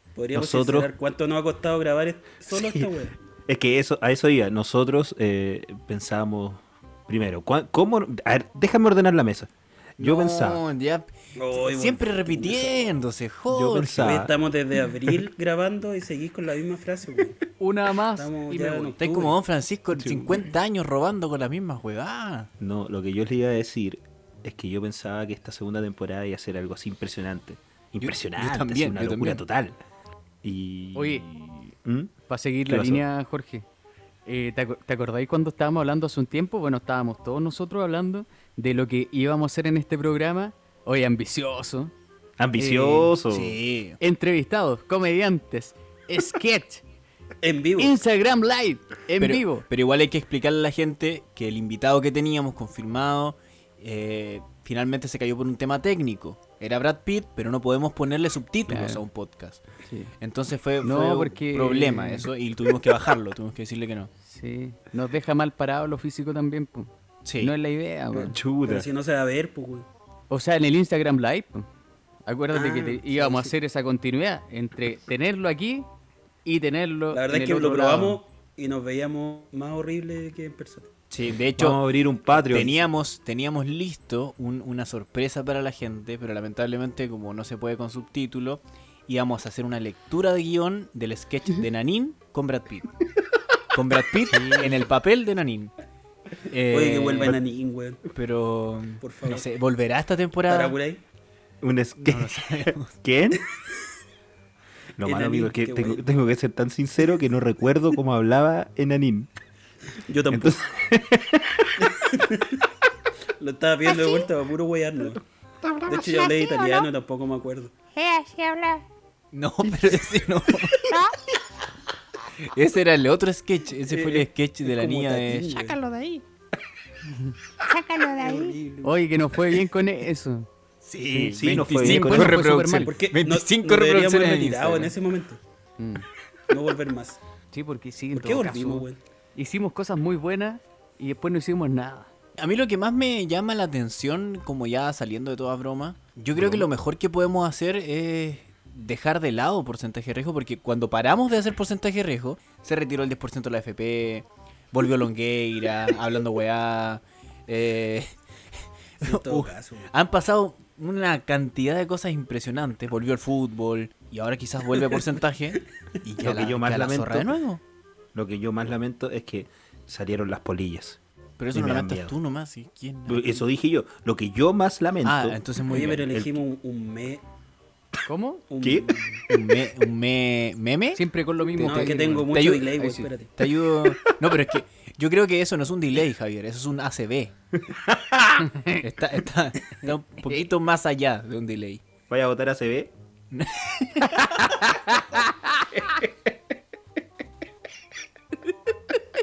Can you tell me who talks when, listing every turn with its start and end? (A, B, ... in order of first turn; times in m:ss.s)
0:00.2-0:03.1 A
0:00.3-0:00.9 B
0:02.5-0:02.9 B
0:03.5-0:10.6 B
0:10.0-0:14.2 C
0:11.4-0:12.9 A
0:13.5-0:14.3 B
0:14.0-0:17.4 A
0:17.6-0:19.0 D
0:18.1-0:19.4 A
0:19.0-0:22.5 C
0:20.0-0:20.4 B
0:22.6-0:29.8 B
0:28.0-0:29.4 C
0:30.4-0:32.1 B
0:30.9-0:31.2 D
0:32.3-0:33.6 D
0:32.7-0:33.0 B
0:34.2-0:41.9 D
0:42.4-0:43.6 B
0:42.6-0:43.1 D
0:43.3-0:44.0 C
0:44.0-0:46.8 D
0:47.4-0:47.9 A
0:47.8-0:49.6 D
0:49.2-0:59.6 C
0:58.7-0:59.0 D
0:59.8-1:00.1 D
1:00.2-1:04.1 C
1:00.8-1:02.3 D
1:04.2-1:08.4 D
1:07.2-1:07.5 C
1:08.1-1:09.8 A
1:08.2-1:08.8 B
1:10.3-1:11.6 D
1:12.2-1:15.9 D
1:12.5-1:13.5 A
1:16.4-1:18.2 D
1:17.1-1:20.9 A
1:21.1-1:21.8 C
1:21.5-1:22.8 B
1:22.4-1:32.9 C
1:33.7-1:35.7 C
1:36.5-1:37.4 C
1:36.7-1:38.0 A
1:38.1-1:40.8 C
1:39.0-1:39.5 A
1:40.5-1:41.0 A
1:41.6-1:43.4 B
1:42.0-1:42.9 C
1:45.0-1:49.3 B
1:45.0-1:46.0 A
1:50.1-1:50.6 A
1:50.3-1:51.7 B
1:51.8-1:52.6 A
1:53.4-1:55.2 A
1:55.8-1:56.9 E
1:55.8-1:57.7 A
1:57.9-1:58.8 E
1:59.3-2:00.7 C
2:00.9-2:01.1 E
2:02.4-2:05.7 C
2:03.8-2:05.8 A
2:05.6-2:06.2 E
2:07.6-2:08.6 E
2:08.2-2:09.0 A
2:08.8-2:10.5 D
2:10.8-2:14.9 C
2:11.1-2:12.4 B
2:11.7-2:13.0 D
2:12.8-2:15.4 A
2:15.8-2:16.0 D
2:16.5-2:17.2 A
2:17.5-2:22.1 D
2:18.1-2:19.0 A
2:22.4-2:47.6 C
2:26.4-2:26.6 B
2:39.0-2:39.9 A
2:46.2-2:47.4 B
2:48.1-2:51.0 B
2:51.4-2:53.4 C
2:51.5-2:52.1 B
2:53.1-2:56.3 B
2:55.0-2:56.0 C
2:55.6-2:57.2 A
2:58.0-2:58.4 D
2:58.5-2:59.2 A
2:58.6-2:58.9 B
2:59.3-3:07.3 C
3:00.9-3:03.0 D
3:01.6-3:03.3 A
3:07.7-3:08.4 B
3:08.4-3:08.8 D
3:08.8-3:11.8 C
3:12.1-3:12.9 B
3:13.3-3:14.1 C
3:14.1-3:15.6 D